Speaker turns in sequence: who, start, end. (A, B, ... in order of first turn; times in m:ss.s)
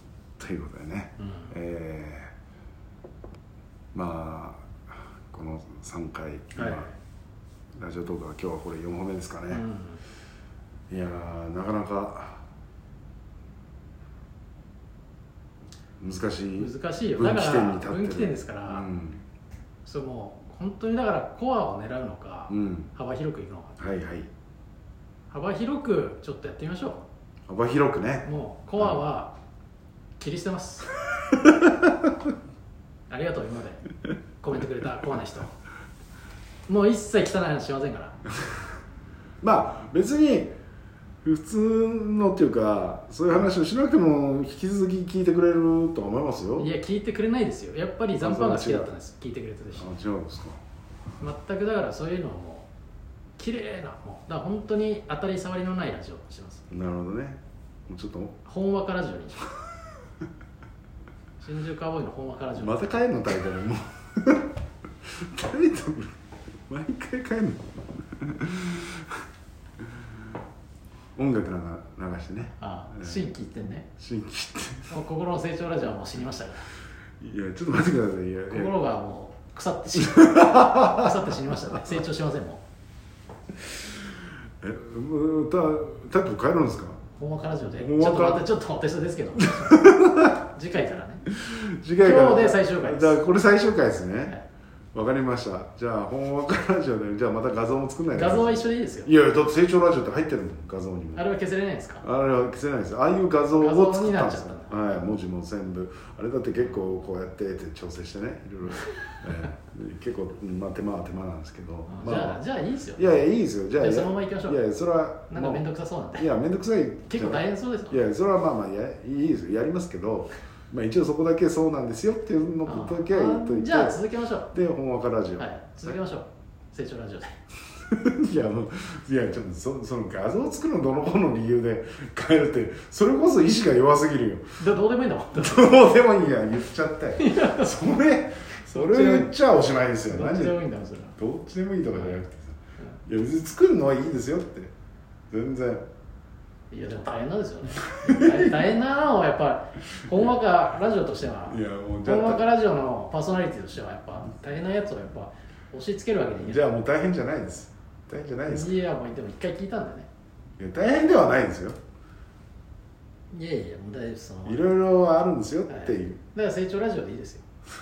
0:00.4-0:02.3 A
0:03.9-0:06.9 A
0:06.6-0:06.9 B
0:07.8-0:09.6 A
0:09.5-0:10.0 B
0:10.9-0:12.4 A
0:16.0-0:19.2 A
0:16.6-0:18.9 B
0:19.8-0:23.8 B
0:22.5-0:22.9 A
0:23.8-0:24.3 A
0:25.3-0:27.0 B
0:27.5-0:28.3 A
0:28.2-0:29.4 B
0:30.2-0:30.9 B
0:31.4-0:32.1 A
0:33.1-0:33.8 B
0:34.4-0:35.5 B
0:36.7-0:38.2 B
0:39.4-0:40.5 A
0:41.2-0:46.7 A
0:46.6-0:50.0 B
0:48.2-0:48.9 A
0:49.8-0:50.6 A
0:51.2-0:52.7 B
0:53.4-0:56.7 B
0:56.7-0:58.4 A
0:58.4-0:59.5 B
1:01.4-1:02.9 B
1:02.6-1:04.5 A
1:05.0-1:09.1 A
1:11.2-1:13.3 A
1:12.6-1:13.9 B
1:14.0-1:15.0 A
1:14.9-1:16.6 B
1:17.2-1:18.8 A
1:18.5-1:22.6 B
1:20.0-1:21.1 A
1:24.6-1:27.0 A
1:27.2-1:31.2 B
1:27.8-1:28.5 A
1:29.4-1:30.4 A
1:31.3-1:34.4 A
1:32.0-1:33.2 B
1:34.9-1:41.3 A
1:38.1-1:39.1 B
1:41.2-1:42.0 B
1:42.0-1:52.4 A
1:43.6-1:44.8 B
1:51.9-1:54.6 B
1:53.0-2:04.0 A
1:55.3-1:56.3 B
1:57.1-1:58.0 B
2:02.7-2:04.5 B
2:04.5-2:06.0 A
2:05.4-2:07.4 B
2:07.9-2:14.6 A
2:14.6-2:15.7 B
2:15.4-2:20.6 A
2:17.2-2:17.9 B
2:18.7-2:19.4 B
2:20.1-2:21.2 B
2:21.2-2:24.7 A
2:21.9-2:22.2 B
2:25.3-2:25.8 A
2:26.7-2:36.6 B
2:27.8-2:28.6 A
2:31.5-2:32.4 A
2:36.4-2:38.8 A
2:38.5-2:40.1 B
2:40.6-2:41.8 A
2:43.3-2:44.6 B
2:44.4-2:46.2 A
2:45.7-2:47.4 B